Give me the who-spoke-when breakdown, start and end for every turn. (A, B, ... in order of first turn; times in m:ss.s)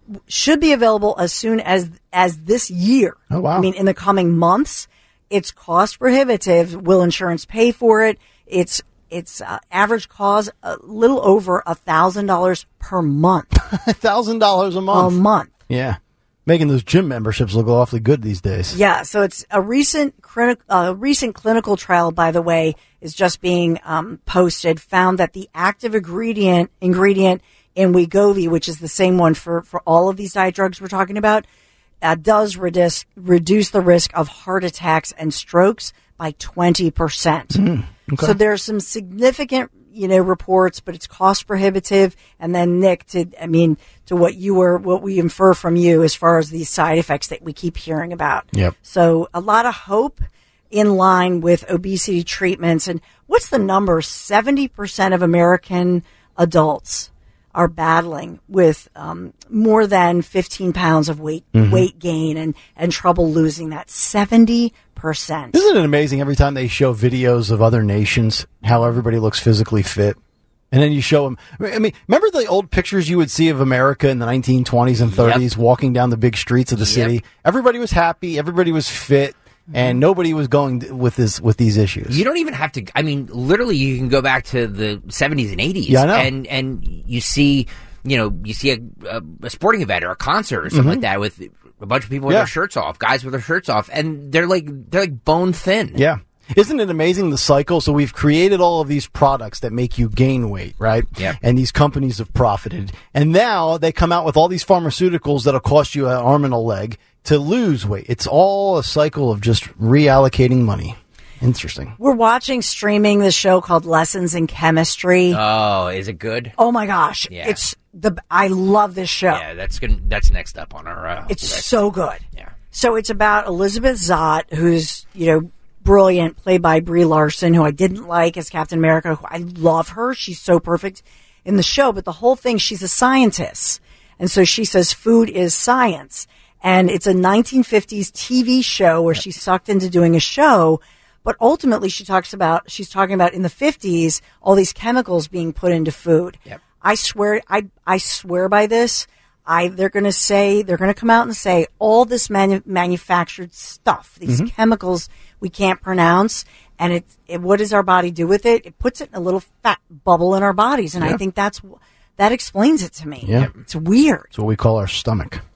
0:00.3-0:13.5 A
0:03.3-0:03.7 B
0:13.6-0:15.2 B
0:14.9-0:15.5 A
0:15.7-0:18.8 B
0:18.7-0:31.4 A
0:32.0-0:37.6 A
0:37.6-0:38.4 B
0:38.2-1:05.6 A
1:01.5-1:01.9 B
1:05.5-1:10.2 B
1:10.7-1:22.2 B
1:15.1-1:15.4 C
1:16.8-1:17.2 C
1:22.1-1:36.0 C
1:25.9-1:26.3 B
1:30.7-1:31.0 B
1:36.0-1:52.0 B
1:52.0-1:55.4 A
1:55.3-1:56.6 C
1:56.6-1:59.4 A
1:57.3-1:57.6 C
1:59.3-2:01.9 C
2:01.3-2:02.2 A
2:02.7-2:44.3 A
2:43.2-2:43.5 B
2:44.3-2:45.4 B